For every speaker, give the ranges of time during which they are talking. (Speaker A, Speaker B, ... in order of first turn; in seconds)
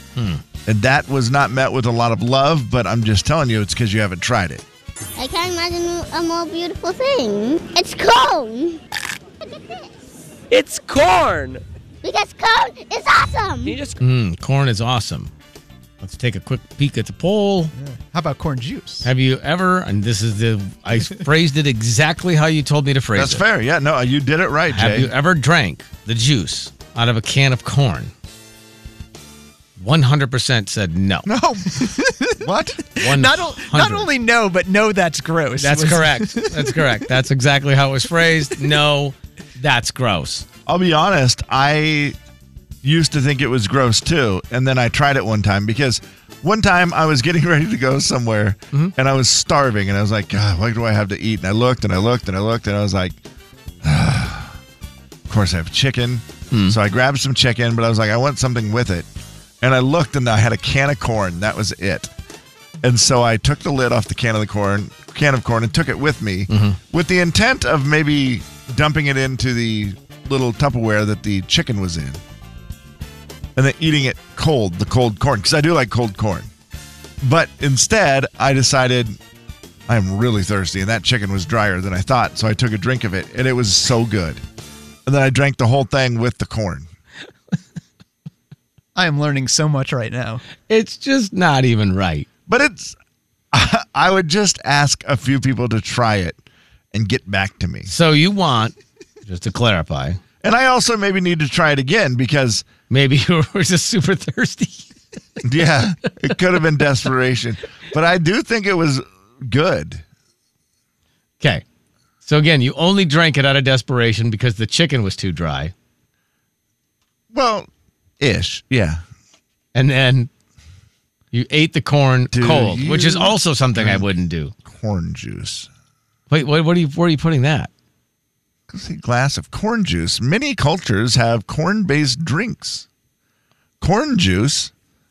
Speaker A: 0.1-0.4, 14.0-15.3, 16.0-17.7, 19.0-23.4, 24.7-28.1, 29.8-31.3, 33.0-34.1, 35.6-40.5, 56.5-56.8, 66.5-66.8, 90.7-92.3, 97.9-98.7, 99.2-100.2, 102.9-104.9, 112.2-115.7, 119.7-120.3, 121.3-124.5, 126.3-127.7
Speaker B: 0.7-4.6, 23.1-25.1, 32.4-32.8, 40.6-42.1, 42.8-53.2, 53.8-54.6, 55.3-59.1, 59.6-62.1, 62.8-72.2, 73.5-76.5, 77.2-79.2, 79.9-84.4, 85.0-86.9, 92.5-93.0, 93.5-96.4, 96.9-97.9, 100.4-102.7, 105.4-110.0, 117.3-117.7, 118.2-119.0, 122.3-124.0, 124.6-125.7, 128.7-132.8, 133.8-134.7
Speaker C: 5.2-8.8, 9.4-9.9, 12.0-13.8
Speaker D: 17.8-19.1, 31.2-37.0, 88.9-90.4